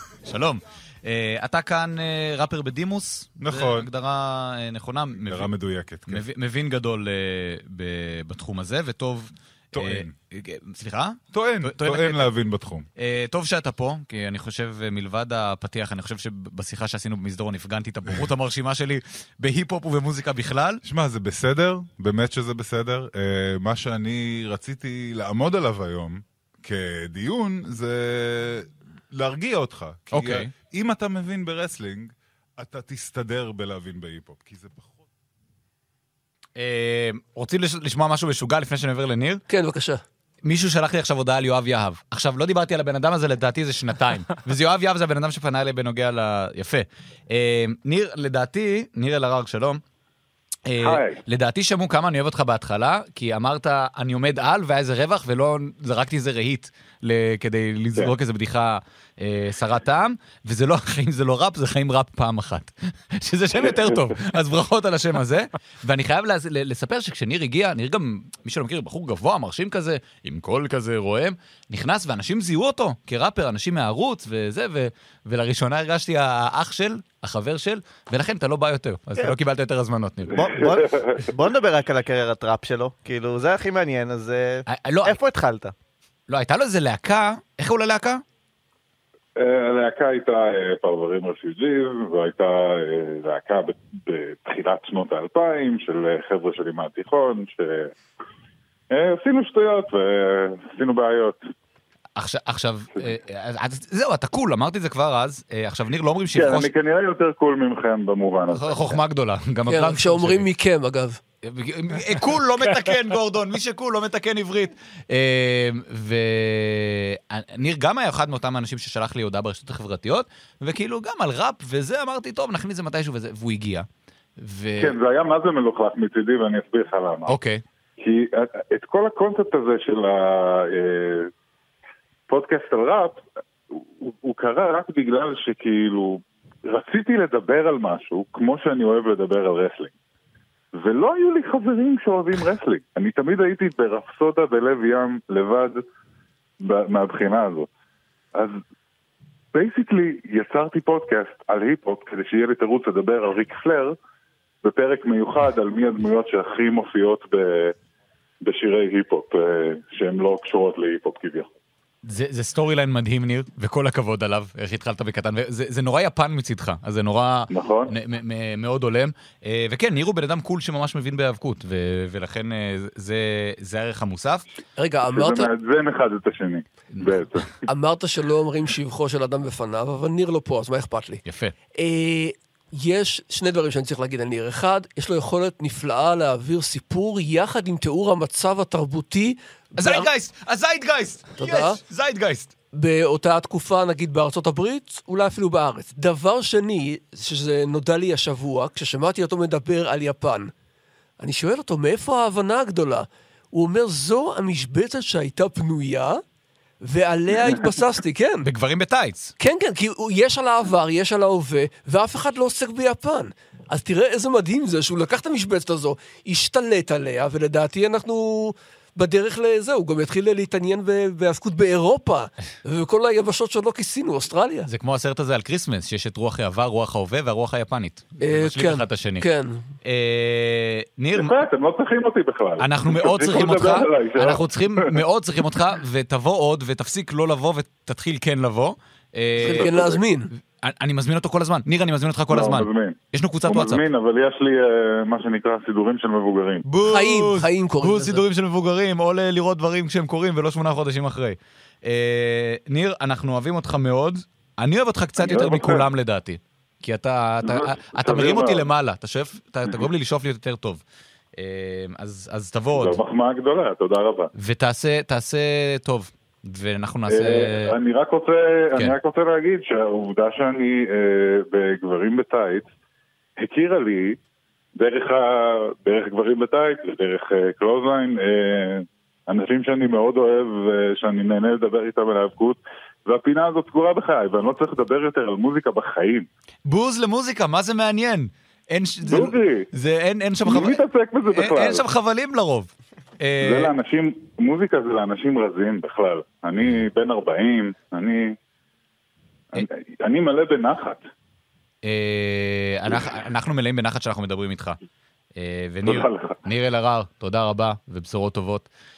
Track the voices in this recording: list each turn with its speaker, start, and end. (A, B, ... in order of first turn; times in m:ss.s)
0:00.2-0:05.5 A
0:03.4-0:03.9 B
0:05.1-0:06.2 B
0:06.1-0:12.3 A
0:09.7-0:10.1 B
0:11.3-0:12.9 B
0:13.0-0:20.8 A
0:20.8-0:35.0 B
0:30.1-0:30.5 A
0:36.6-0:39.4 A
0:39.5-0:40.0 C
0:40.4-0:49.8 A
0:50.7-1:20.5 A
0:50.8-0:51.2 D
1:20.3-1:25.7 E
1:24.7-1:25.2 A
1:26.3-1:28.2 A
1:29.4-1:37.9 D
1:38.9-1:41.4 D
1:42.2-1:46.7 A
1:46.3-1:49.0 D
1:48.5-1:50.5 A
1:49.7-1:51.2 C
1:51.4-2:03.9 A
2:04.4-2:05.0 A
2:04.8-2:07.4 D
2:07.3-2:07.6 A
2:08.0-2:11.3 D
2:12.3-2:19.9 D
2:20.8-2:25.8 D
2:26.6-2:27.7 D
2:29.5-2:34.0 D
2:34.6-2:37.7 D
2:38.4-2:41.5 D
2:42.0-2:54.4 A
2:47.5-2:47.9 D
2:54.8-2:55.5 C
2:55.1-2:57.4 D
2:56.9-2:57.2 A
2:57.7-3:01.2 C
3:01.3-3:01.5 A
3:01.8-3:10.1 C
3:09.8-3:12.5 A
3:11.4-3:11.8 C
3:12.7-3:20.5 C
3:21.2-3:26.2 C
3:26.8-3:28.5 C
3:28.4-3:29.3 A
3:29.4-3:44.7 C
3:44.7-3:49.3 A
3:48.2-3:49.6 C
3:49.8-3:51.4 A
3:51.1-3:54.4 D
3:52.6-4:00.0 A
3:59.4-4:00.3 C
4:00.6-4:03.8 A
4:02.3-4:06.6 D
4:06.7-4:20.8 A
4:06.8-4:08.2 C
4:15.2-4:15.9 D
4:17.4-4:18.7 D
4:21.4-4:23.0 A
4:22.7-4:24.3 D
4:24.4-4:27.8 A
4:27.1-4:32.7 D
4:33.4-4:34.2 D
4:34.8-4:46.3 D
4:46.6-4:53.8 A
4:49.0-4:49.7 D
4:50.4-4:51.9 D
4:53.4-4:58.3 D
4:59.6-5:01.0 D
5:01.8-5:04.8 A
5:05.4-5:08.7 A
5:05.8-5:06.4 D